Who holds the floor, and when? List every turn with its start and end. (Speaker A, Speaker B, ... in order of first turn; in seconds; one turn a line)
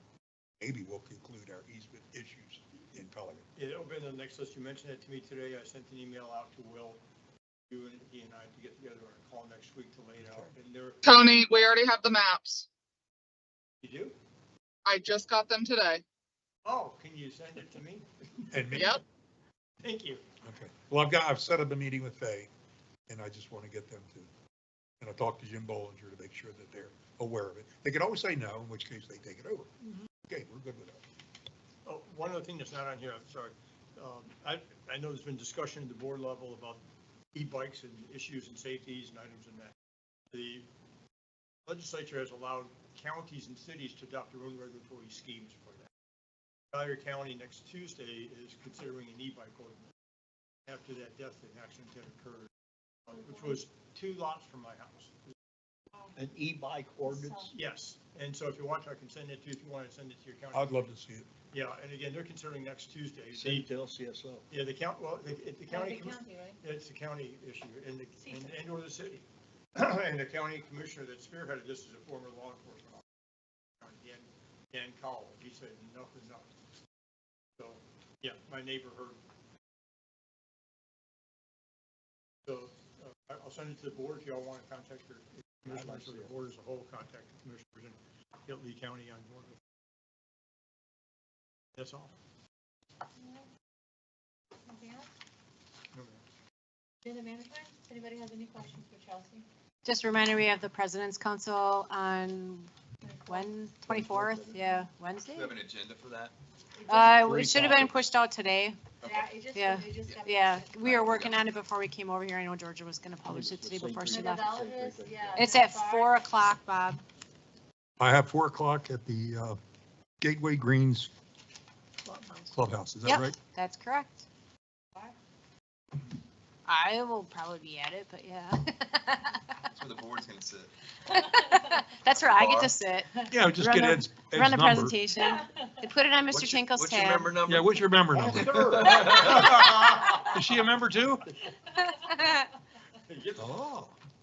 Speaker A: 0.6-3.4
Speaker B: 3.5-7.0
Speaker B: 7.7-11.0
Speaker A: 10.2-10.5
Speaker C: 11.0-12.7
Speaker B: 13.8-14.1
Speaker C: 14.8-16.0
Speaker B: 16.6-18.8
Speaker A: 18.5-18.9
Speaker C: 18.7-19.0
Speaker B: 19.8-20.2
Speaker A: 20.4-22.5
Speaker A: 23.1-24.3
Speaker A: 25.0-31.0
Speaker B: 31.8-36.8
Speaker B: 37.3-39.7
Speaker B: 40.3-40.7
Speaker B: 41.7-45.9
Speaker B: 46.7-49.9
Speaker B: 50.6-52.5
Speaker B: 53.1-55.1
Speaker D: 56.2-57.5
Speaker E: 57.0-57.5
Speaker B: 57.5-60.9
Speaker A: 60.5-61.3
Speaker B: 61.5-63.7
Speaker D: 63.3-64.4
Speaker B: 64.5-73.0
Speaker E: 65.7-66.6
Speaker B: 73.8-76.5
Speaker B: 77.6-79.2
Speaker B: 82.5-89.6
Speaker D: 85.7-86.3
Speaker B: 91.7-92.1
Speaker E: 94.7-95.1
Speaker B: 95.9-96.2
Speaker E: 97.0-99.4
Speaker F: 99.8-102.7
Speaker E: 103.0-103.5
Speaker F: 103.3-105.6
Speaker D: 103.9-104.7
Speaker G: 105.3-106.3
Speaker E: 106.8-107.6
Speaker F: 106.9-108.8
Speaker D: 107.0-107.9
Speaker G: 109.0-109.3
Speaker E: 109.0-111.3
Speaker F: 109.5-114.5
Speaker G: 110.9-111.3
Speaker D: 113.3-115.5
Speaker E: 114.0-116.2
Speaker F: 115.4-117.0
Speaker A: 118.0-119.6
Speaker A: 120.2-121.1
Speaker F: 122.0-124.2
Speaker A: 122.5-123.4
Speaker F: 126.7-129.5
Speaker G: 129.6-130.7
Speaker F: 131.1-137.4
Speaker E: 131.4-131.8
Speaker G: 132.3-132.7
Speaker A: 133.3-135.0
Speaker E: 135.3-135.6
Speaker G: 136.3-137.8
Speaker A: 137.4-141.3
Speaker D: 138.1-139.0
Speaker G: 138.6-139.6
Speaker F: 139.5-139.9
Speaker F: 141.7-142.5
Speaker B: 143.0-143.5
Speaker A: 143.4-143.9